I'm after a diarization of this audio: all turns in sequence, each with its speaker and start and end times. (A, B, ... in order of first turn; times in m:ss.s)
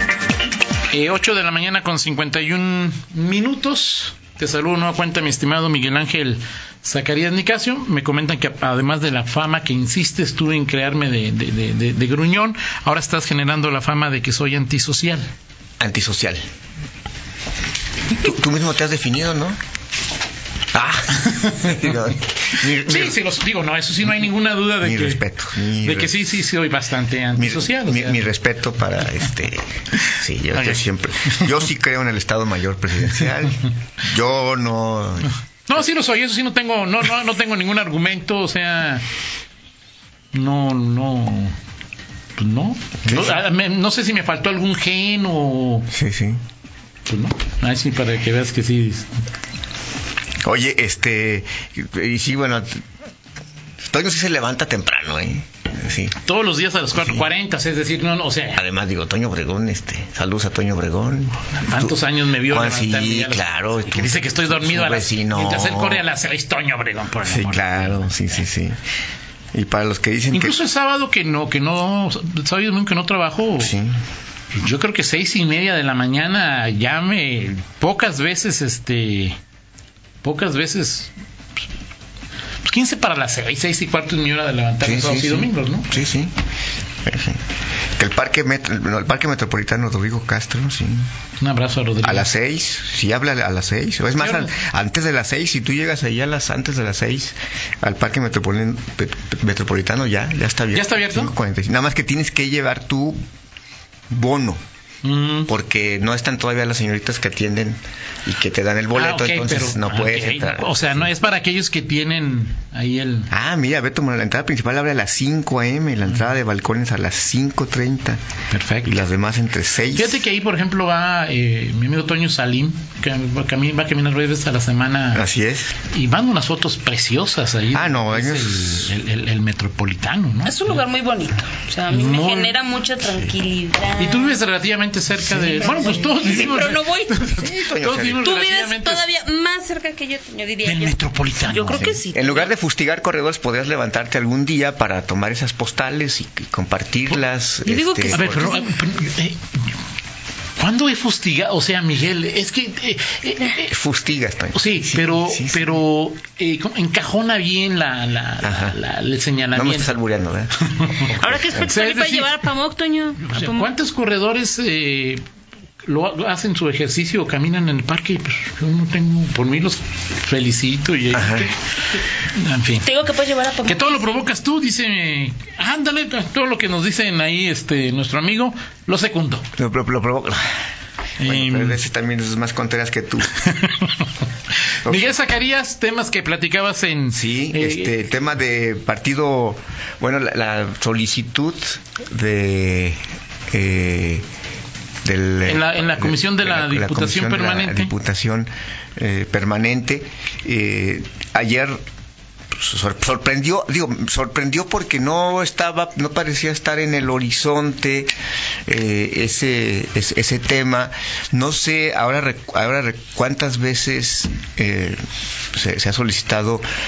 0:00.9-0:15.3 A
0:15.8-0:16.4 B
0:18.1-0:19.6 B
0:20.7-0:23.2 B
0:21.2-0:21.9 A
0:22.6-0:25.2 A
0:24.8-0:26.3 B
0:25.8-0:28.2 A
0:27.4-0:35.3 B
0:35.7-0:39.0 A
0:40.3-0:41.6 A
0:42.4-0:45.9 A
0:43.0-0:43.4 B
0:45.9-0:46.4 B
0:47.1-0:49.1 A
0:50.4-0:52.8 B
0:53.8-0:56.2 B
0:56.2-0:58.6 A
0:57.0-0:57.3 B
0:58.6-1:06.0 B
1:01.6-1:08.4 A
1:07.2-1:08.8 B
1:09.5-1:10.6 B
1:10.3-1:13.8 A
1:13.6-1:13.9 B
1:14.5-1:19.4 A
1:20.2-1:21.1 A
1:22.6-1:26.0 A
1:24.8-1:26.3 B
1:27.0-1:27.4 B
1:28.0-1:31.1 B
1:31.4-1:32.3 A
1:32.0-1:43.2 B
1:34.2-1:34.5 A
1:40.7-1:41.3 A
1:44.1-1:44.6 B
1:45.0-1:45.5 A
1:45.5-1:51.1 B
1:48.9-1:53.3 A
1:53.3-1:58.2 B
1:58.5-1:59.0 A
1:58.8-2:00.2 B
1:59.9-2:05.3 A
2:05.1-2:05.7 B
2:05.8-2:10.8 A
2:07.7-2:09.0 B
2:10.4-2:14.4 C
2:11.9-2:12.6 A
2:14.0-2:19.0 A
2:15.3-2:16.4 B
2:15.7-2:17.3 C
2:17.3-2:18.2 B
2:18.2-2:22.5 C
2:20.6-2:22.0 A
2:22.1-2:28.6 B
2:27.6-2:28.6 C
2:28.1-2:29.4 A
2:30.6-2:33.7 A
2:33.7-2:35.8 B
2:34.5-2:39.9 A
2:38.4-2:38.8 B
2:39.5-2:41.8 B
2:40.7-2:42.4 A
2:41.2-2:43.7 C
2:43.2-2:45.2 A
2:45.8-2:51.6 A
2:51.1-2:51.5 B
2:52.3-2:52.9 A
2:52.8-2:54.0 C
2:53.6-2:59.5 A
2:59.6-3:00.5 B
3:01.2-3:01.8 A
3:01.2-3:03.3 B
3:03.4-3:04.0 A
3:04.7-3:08.0 A
3:04.8-3:05.2 B
3:07.1-3:13.0 B
3:13.5-3:14.2 B
3:15.0-3:21.8 B
3:15.5-3:17.9 A
3:22.5-3:28.1 B
3:28.7-3:35.0 B
3:35.5-3:36.6 B